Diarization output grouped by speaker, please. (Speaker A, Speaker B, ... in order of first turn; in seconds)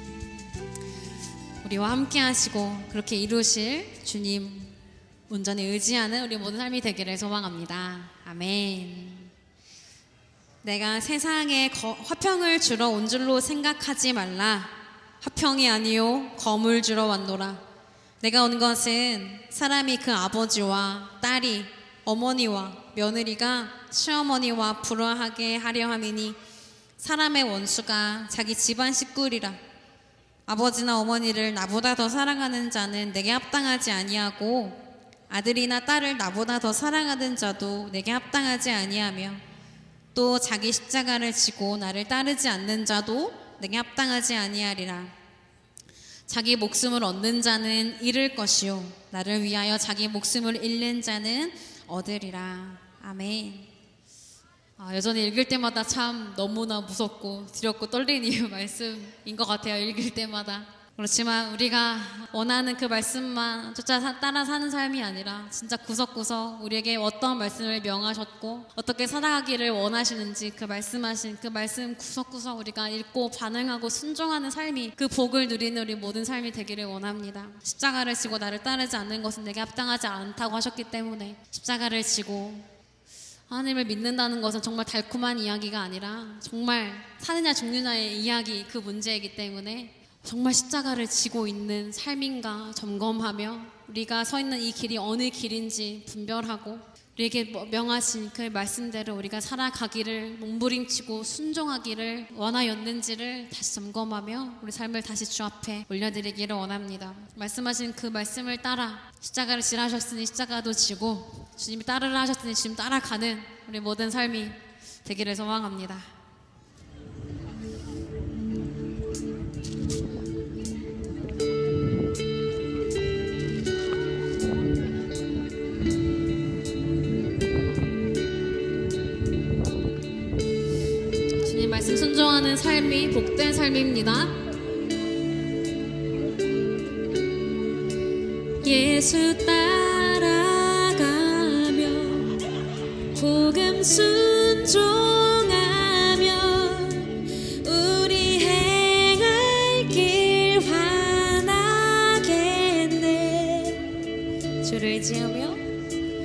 Speaker A: 1.6-4.7, 5.3-9.3, 10.6-17.6, 18.2-26.4, 27.0-29.6, 30.5-39.4, 40.1-45.1, 46.3-53.7, 54.8-82.7, 83.5-116.1, 131.4-134.4, 138.6-142.3, 143.1-154.0, 154.6-155.6